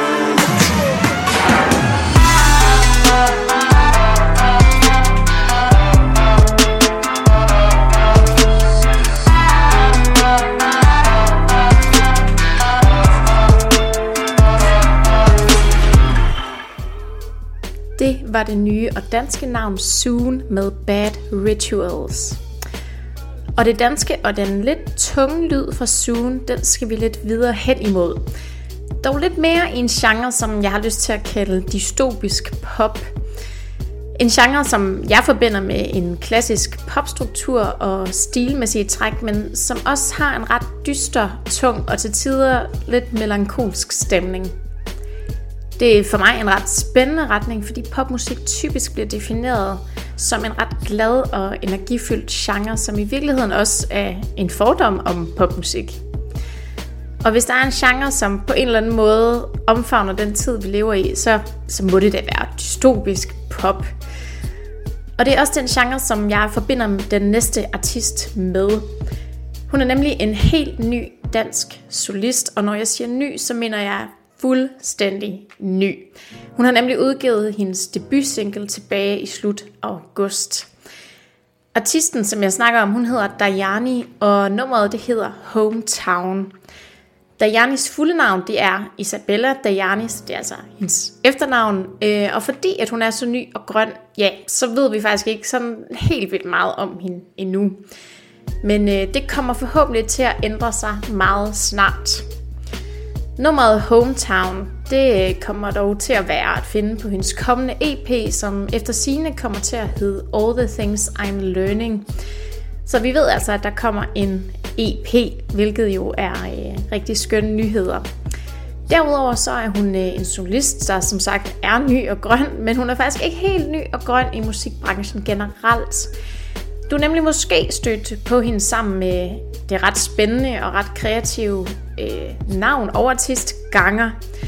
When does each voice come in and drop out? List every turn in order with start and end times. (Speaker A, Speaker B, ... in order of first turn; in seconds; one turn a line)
Speaker A: 18.0-22.4
Speaker A: 23.6-28.3
Speaker A: 29.0-33.1
Speaker A: 34.2-44.5
Speaker A: 45.8-56.0
Speaker A: 57.2-63.9
Speaker A: 65.2-68.9
Speaker A: 69.7-80.7
Speaker A: 81.8-86.5
Speaker A: 87.4-97.8
Speaker A: 98.6-102.3
Speaker A: 103.4-112.1
Speaker A: 112.8-118.1
Speaker A: 118.9-126.1
Speaker A: 126.9-134.2